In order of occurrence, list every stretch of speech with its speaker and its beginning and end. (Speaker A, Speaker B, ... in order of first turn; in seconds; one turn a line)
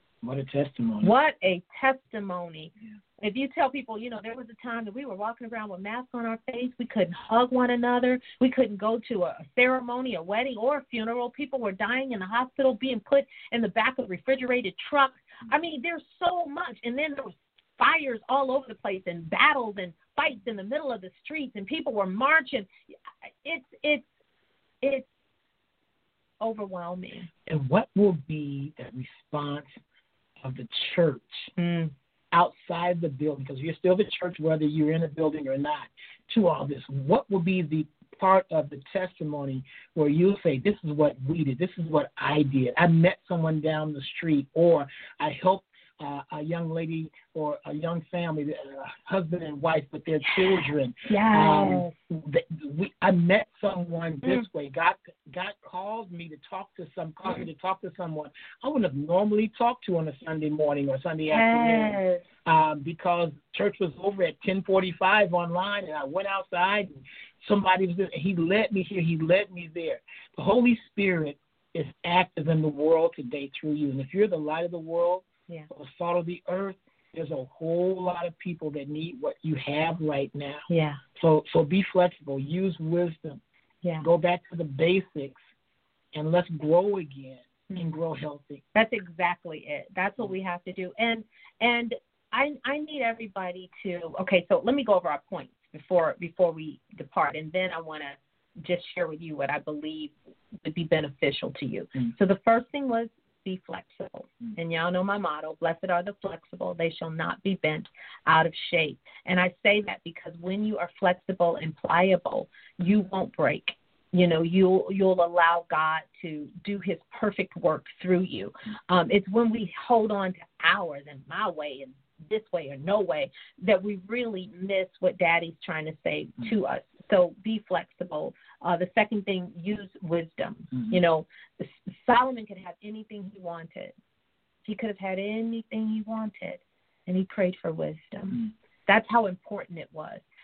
Speaker A: 0.2-1.1
Speaker B: 1.0-22.7
Speaker B: 23.4-24.1
Speaker B: 24.8-25.1
Speaker B: 26.4-27.3
Speaker A: 27.5-29.8
Speaker A: 30.4-31.5
Speaker B: 31.6-31.9
Speaker A: 32.3-80.7
Speaker B: 50.3-51.9
Speaker B: 61.3-62.2
Speaker B: 80.7-81.0
Speaker A: 81.2-83.4
Speaker A: 84.0-85.4
Speaker A: 86.1-88.6
Speaker B: 88.7-100.1
Speaker B: 100.6-133.9
Speaker B: 134.7-140.2